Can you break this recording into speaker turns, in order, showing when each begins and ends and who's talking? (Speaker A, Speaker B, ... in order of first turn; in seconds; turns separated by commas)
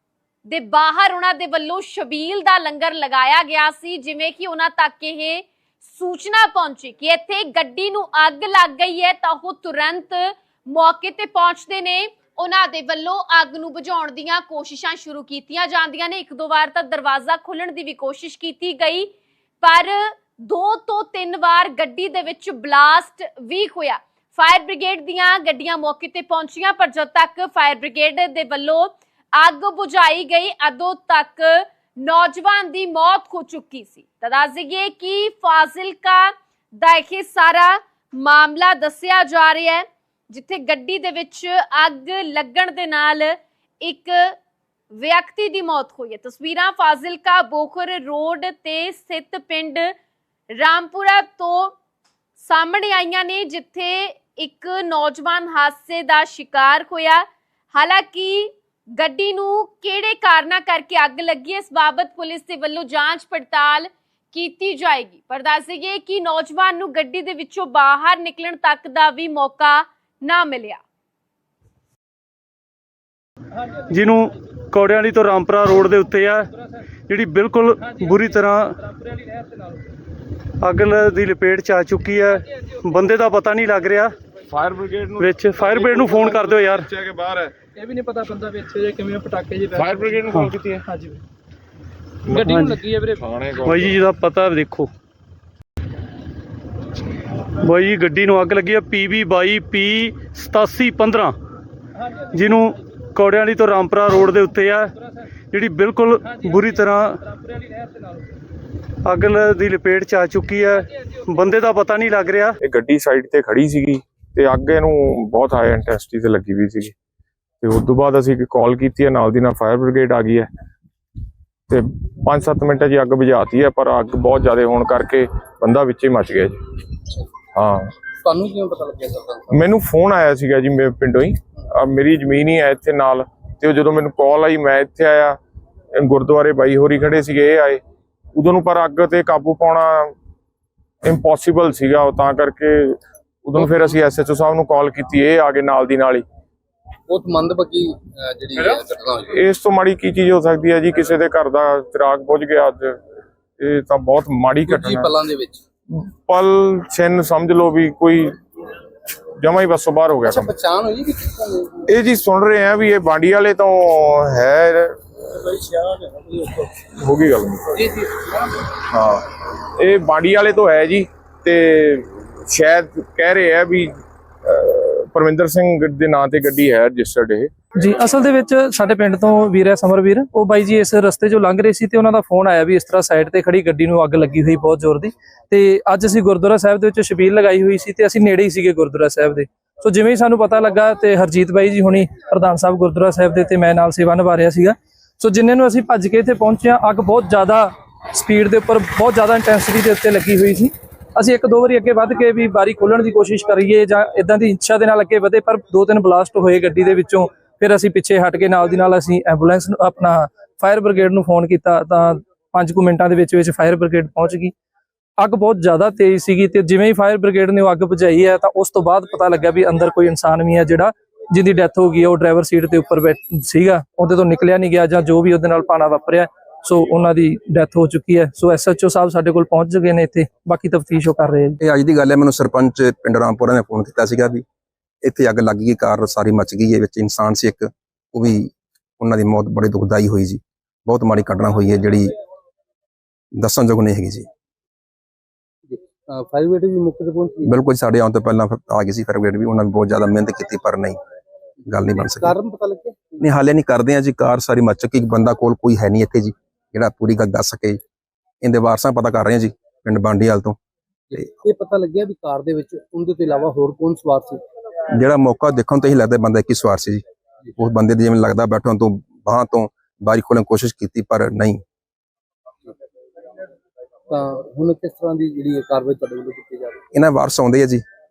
Speaker A: 0.5-19.1, Speaker A: 19.6-44.4, Speaker A: 44.9-49.9, Speaker A: 50.5-51.7, Speaker A: 52.4-70.8, Speaker B: 73.9-76.5, Speaker B: 77.1-78.8, Speaker B: 80.6-84.1, Speaker C: 84.5-87.5, Speaker B: 85.2-86.9, Speaker D: 87.8-90.2, Speaker C: 89.7-90.8, Speaker D: 90.9-91.2, Speaker C: 92.3-92.5, Speaker D: 92.3-93.2, Speaker B: 92.4-92.8, Speaker C: 93.2-94.0, Speaker B: 93.7-94.9, Speaker B: 97.6-101.4, Speaker B: 102.3-104.9, Speaker B: 105.5-107.2, Speaker B: 109.0-112.6, Speaker C: 112.6-117.0, Speaker C: 117.6-120.5, Speaker C: 121.7-126.6, Speaker C: 127.5-127.9, Speaker E: 128.2-129.5, Speaker C: 129.5-135.4, Speaker C: 136.0-137.8, Speaker C: 138.4-140.2, Speaker C: 141.0-146.2, Speaker E: 143.6-143.9, Speaker E: 147.1-149.3, Speaker C: 149.3-153.0, Speaker C: 153.6-155.1, Speaker E: 154.7-155.6, Speaker C: 155.9-158.4, Speaker C: 159.4-160.5, Speaker E: 160.2-161.9, Speaker C: 161.9-165.0, Speaker E: 165.3-166.7, Speaker C: 166.8-167.8, Speaker E: 167.8-168.6, Speaker C: 168.8-177.5, Speaker D: 177.8-214.5, Speaker D: 215.2-231.6, Speaker F: 231.6-234.4, Speaker F: 235.0-242.1, Speaker F: 243.4-244.3, Speaker E: 245.7-247.5, Speaker F: 247.5-251.0, Speaker F: 251.7-252.3, Speaker E: 252.1-253.2, Speaker F: 253.2-257.8, Speaker F: 258.4-260.6, Speaker E: 261.1-264.4, Speaker F: 264.9-267.0, Speaker F: 267.6-271.6, Speaker E: 274.1-276.8, Speaker F: 276.9-277.8